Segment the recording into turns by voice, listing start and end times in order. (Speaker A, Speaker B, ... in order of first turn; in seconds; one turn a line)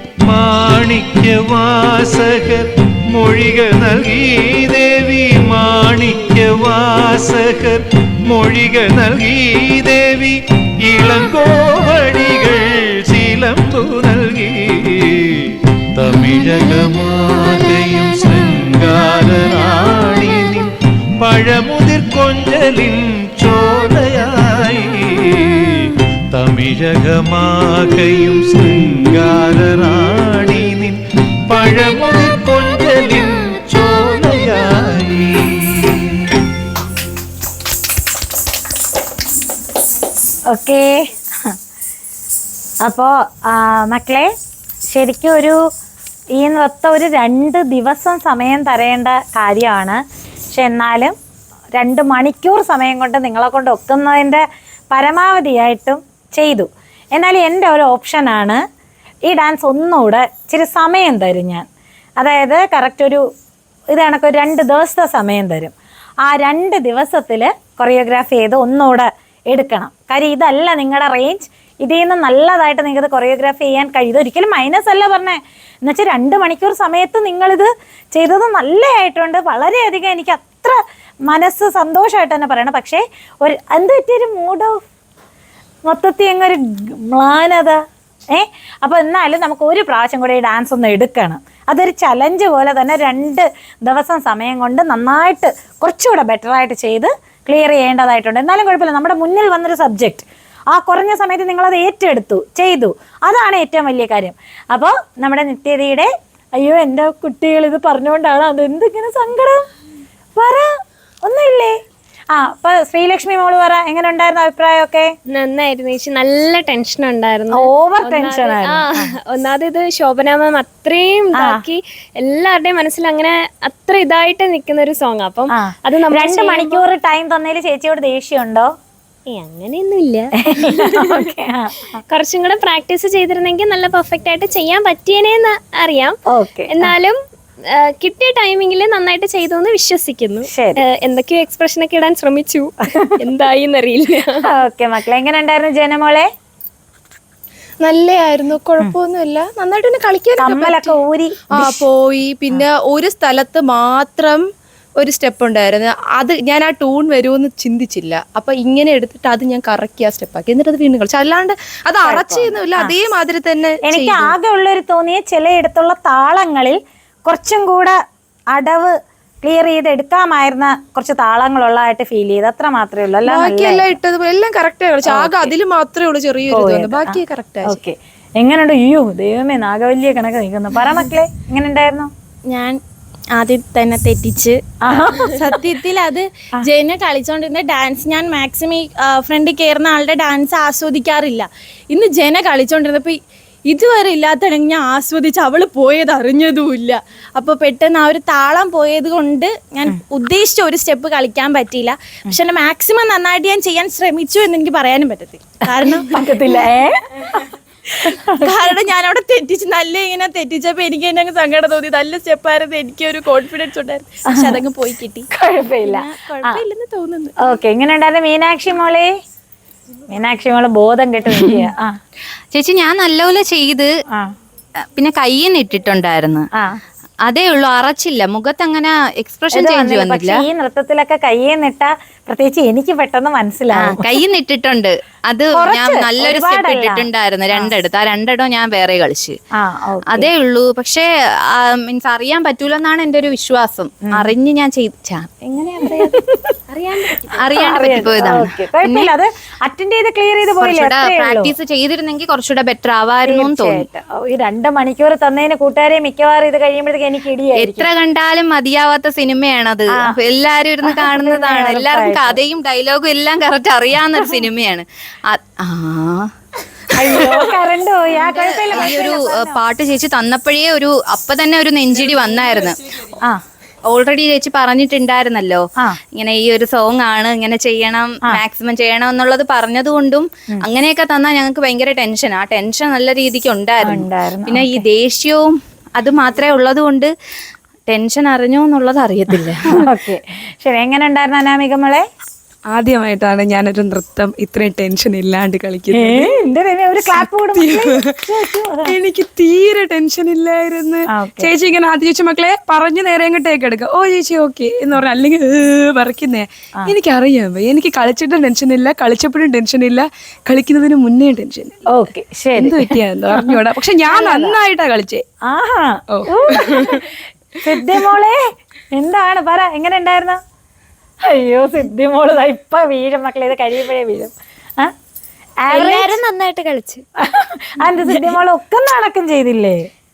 Speaker A: 0.2-36.3
Speaker B: 40.5-41.5
Speaker B: 42.8-44.3
Speaker B: 44.9-45.6
Speaker B: 46.4-50.0
Speaker B: 50.5-51.1
Speaker B: 51.8-58.6
Speaker B: 59.2-61.6
Speaker B: 62.2-63.2
Speaker B: 63.9-65.7
Speaker B: 66.2-80.8
Speaker B: 81.3-84.8
Speaker B: 85.9-87.8
Speaker B: 88.3-109.6
Speaker B: 110.4-110.7
Speaker B: 111.2-111.8
Speaker B: 112.3-115.1
Speaker C: 115.3-126.8
Speaker B: 117.5-119.1
Speaker B: 121.4-121.6
Speaker B: 125.6-128.7
Speaker C: 129.3-131.3
Speaker B: 130.4-132.0
Speaker C: 132.1-136.2
Speaker B: 136.3-136.9
Speaker C: 136.7-137.1
Speaker C: 138.0-144.5
Speaker B: 140.5-140.8
Speaker B: 144.4-146.3
Speaker D: 147.8-150.9
Speaker B: 150.4-151.8
Speaker D: 151.5-154.4
Speaker D: 155.0-164.3
Speaker B: 162.0-162.9
Speaker B: 163.9-167.9
Speaker B: 168.5-173.8
Speaker D: 173.2-177.8
Speaker B: 175.1-175.5
Speaker B: 176.5-182.1
Speaker E: 182.5-182.8
Speaker E: 183.3-184.6
Speaker B: 184.8-185.6
Speaker E: 185.1-206.6
Speaker B: 205.8-206.9
Speaker B: 207.9-208.6
Speaker E: 208.4-215.3
Speaker B: 214.3-214.6
Speaker B: 215.3-216.6
Speaker E: 215.8-217.3
Speaker B: 217.4-219.1
Speaker B: 220.1-221.9
Speaker F: 222.5-223.9
Speaker F: 224.9-226.4
Speaker F: 227.2-230.4
Speaker B: 229.5-234.1
Speaker F: 233.8-239.4
Speaker B: 235.5-237.7
Speaker B: 239.6-240.3
Speaker F: 240.1-245.3
Speaker C: 245.5-247.4
Speaker B: 245.8-246.5
Speaker F: 247.3-249.1
Speaker B: 247.5-251.5
Speaker F: 250.6-253.8
Speaker B: 253.2-257.9
Speaker F: 257.5-266.3
Speaker B: 260.8-262.4
Speaker B: 266.9-269.6
Speaker F: 267.0-272.8
Speaker F: 273.8-287.1
Speaker B: 283.8-284.9
Speaker F: 287.9-289.8
Speaker B: 289.7-292.0
Speaker G: 292.7-296.3
Speaker B: 295.9-298.9
Speaker G: 297.5-298.0
Speaker G: 298.9-311.8
Speaker B: 301.1-301.5
Speaker B: 311.9-314.6
Speaker G: 312.6-315.2
Speaker B: 315.5-318.4
Speaker G: 316.1-317.0
Speaker B: 318.9-320.4
Speaker B: 321.3-324.9
Speaker B: 325.6-326.2
Speaker C: 325.7-327.0
Speaker B: 327.2-329.9
Speaker C: 327.9-328.4